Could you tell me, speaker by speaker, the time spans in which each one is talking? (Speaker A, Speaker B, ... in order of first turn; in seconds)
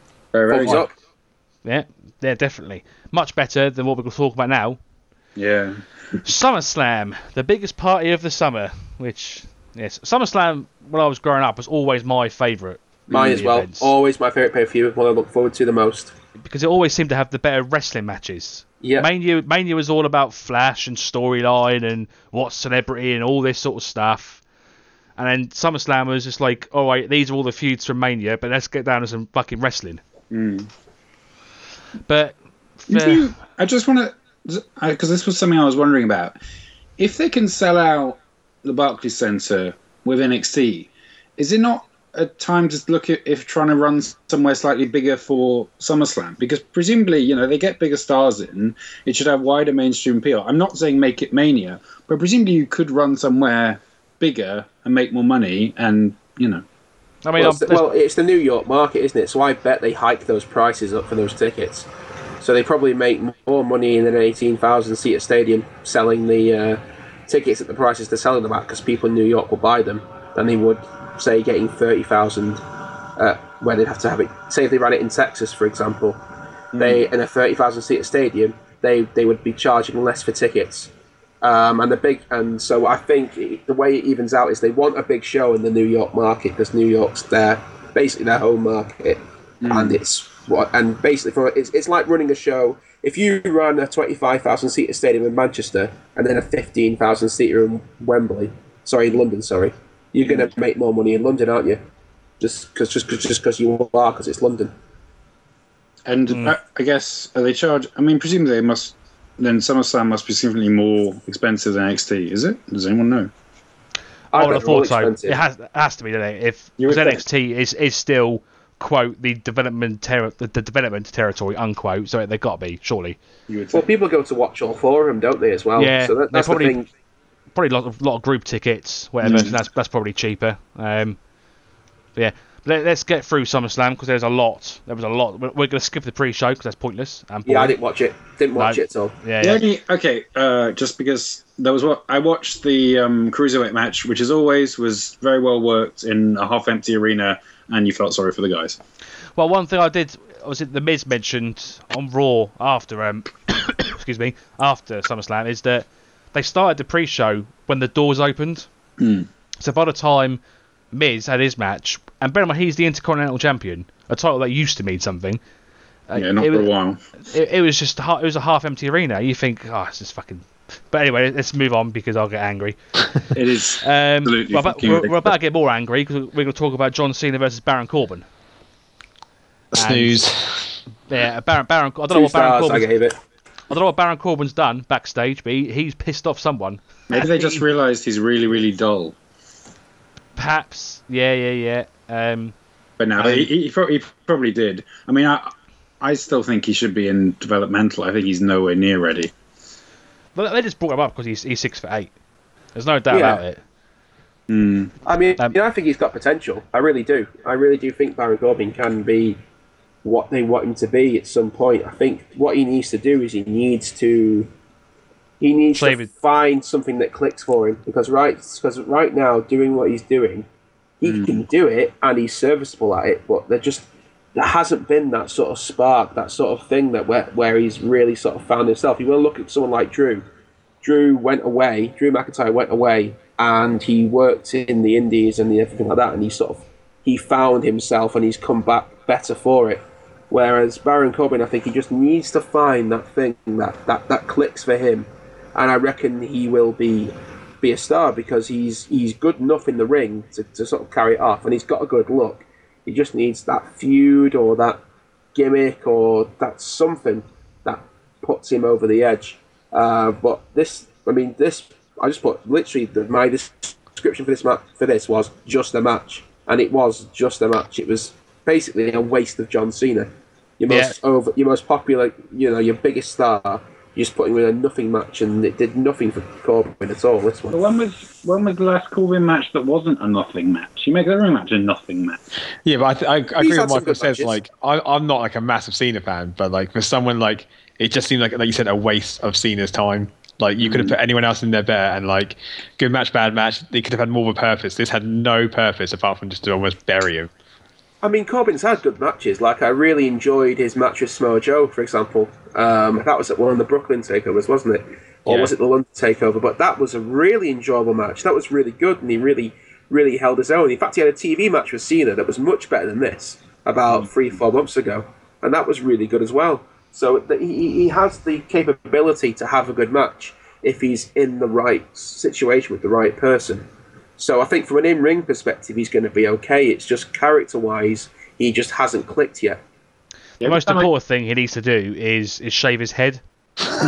Speaker A: 0.3-0.9, 5.4-6.2, 30.3-30.7, 32.9-36.4, 37.0-56.6, 76.7-77.1, 89.6-90.0, 100.3-100.5, 106.0-113.3, 116.8-117.2, 123.5-123.9, 129.2-129.5, 139.4-148.8, 159.0-159.3, 166.2-167.0, 173.3-175.3, 187.1-189.2, 193.0-199.3, 204.5-204.9, 221.1-221.4, 277.5-282.2, 290.6-291.0, 330.4-330.9
Speaker B: 0.5-0.9, 13.1-16.1, 18.8-19.1, 57.4-61.9, 62.4-72.6, 73.2-76.2, 76.8-101.8, 102.4-104.7, 114.3-115.4, 123.7-126.9, 137.5-139.2, 182.1-183.2, 203.1-203.4, 205.1-209.4, 210.0-214.5, 215.4-220.5, 221.0-230.2, 230.8-254.8, 255.3-277.6, 283.4-284.4, 298.0-323.7, 324.2-329.6
Speaker C: 1.6-4.8, 6.2-13.9, 16.4-24.4, 25.2-30.0, 32.1-33.3, 57.2-57.9, 106.3-106.6, 114.3-123.2, 125.8-126.7, 127.5-131.2, 132.2-137.8, 138.6-139.6, 149.4-158.7, 159.6-160.4, 160.9-165.4, 166.1-166.7, 167.2-172.8, 173.8-178.3, 179.7-180.2, 181.1-182.9, 183.7-187.6, 190.4-192.6, 193.2-193.5, 200.3-202.1, 202.8-203.6, 215.8-216.1, 270.7-270.9, 330.4-333.2
Speaker D: 179.7-180.8, 282.6-297.3, 305.3-305.5